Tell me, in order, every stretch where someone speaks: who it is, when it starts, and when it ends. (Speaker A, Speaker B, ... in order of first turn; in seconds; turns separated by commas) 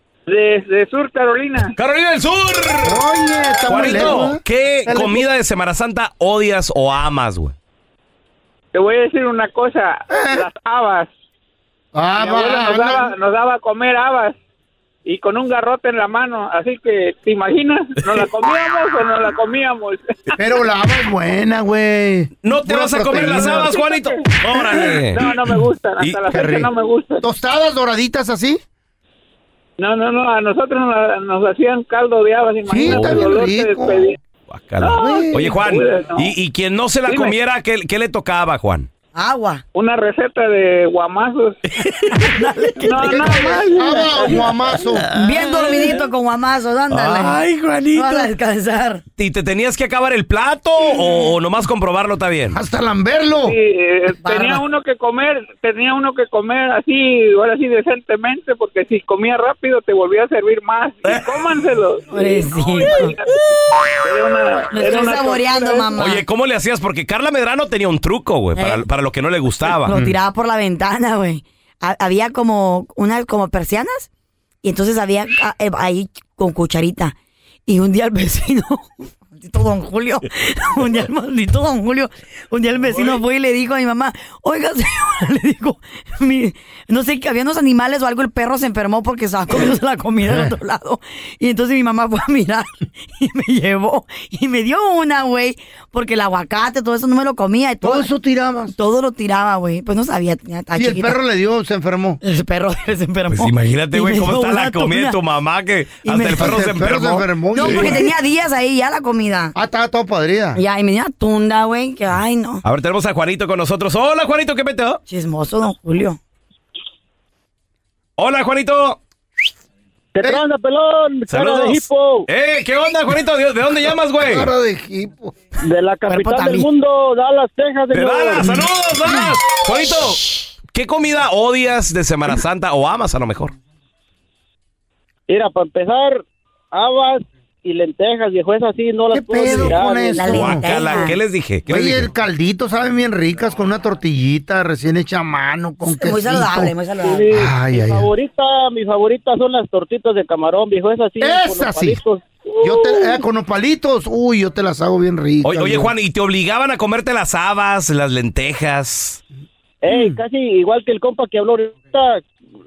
Speaker A: 0.3-1.8, Speaker B: 1.8-3.0, Speaker C: 2.8-5.3, Speaker B: 3.7-7.5, Speaker A: 8.7-11.1, Speaker C: 10.1-10.4, Speaker C: 11.9-13.1, Speaker A: 12.2-14.4, Speaker A: 15.1-20.3, Speaker C: 20.4-23.8, Speaker B: 22.4-25.3, Speaker A: 25.1-27.2, Speaker B: 26.0-26.3, Speaker C: 26.3-28.6, Speaker A: 29.8-34.2, Speaker C: 32.7-34.1, Speaker B: 32.9-33.2, Speaker B: 34.5-38.9, Speaker A: 34.8-36.3, Speaker C: 34.9-35.6, Speaker A: 37.1-37.4, Speaker D: 39.1-39.6, Speaker A: 39.8-41.6, Speaker D: 42.1-44.4, Speaker A: 42.8-44.0, Speaker C: 43.0-45.1, Speaker D: 45.1-47.4, Speaker B: 45.4-45.9, Speaker B: 46.9-48.3, Speaker D: 47.9-49.0, Speaker B: 49.2-52.6, Speaker C: 52.5-53.5, Speaker A: 53.5-63.4, Speaker D: 54.2-54.6, Speaker D: 62.1-63.1, Speaker A: 64.0-66.1, Speaker D: 64.7-66.2, Speaker B: 66.0-70.0, Speaker D: 68.6-68.8, Speaker D: 69.9-74.1, Speaker C: 69.9-70.2, Speaker D: 74.6-77.2, Speaker D: 77.7-98.1, Speaker C: 90.2-90.5, Speaker C: 97.8-98.7, Speaker D: 98.7-101.2, Speaker C: 100.8-102.2, Speaker D: 102.2-105.2, Speaker B: 103.3-108.0, Speaker D: 106.0-106.7, Speaker C: 106.4-108.1, Speaker D: 107.5-109.5, Speaker C: 109.5-110.6, Speaker D: 110.6-112.6, Speaker B: 112.6-115.0, Speaker D: 115.1-116.2, Speaker B: 118.2-119.0, Speaker E: 120.2-122.2, Speaker B: 121.3-124.5, Speaker C: 124.2-125.3, Speaker E: 125.7-128.4, Speaker D: 126.1-126.7, Speaker B: 127.9-133.5, Speaker E: 135.3-136.2, Speaker E: 136.7-140.2, Speaker C: 139.1-140.8, Speaker D: 140.1-141.2, Speaker B: 140.3-142.1, Speaker C: 141.7-146.8, Speaker D: 145.8-147.3, Speaker E: 147.0-152.2, Speaker C: 147.3-148.1, Speaker C: 151.2-152.0, Speaker C: 152.6-155.9, Speaker B: 155.4-159.2, Speaker E: 159.8-162.2, Speaker C: 159.9-160.2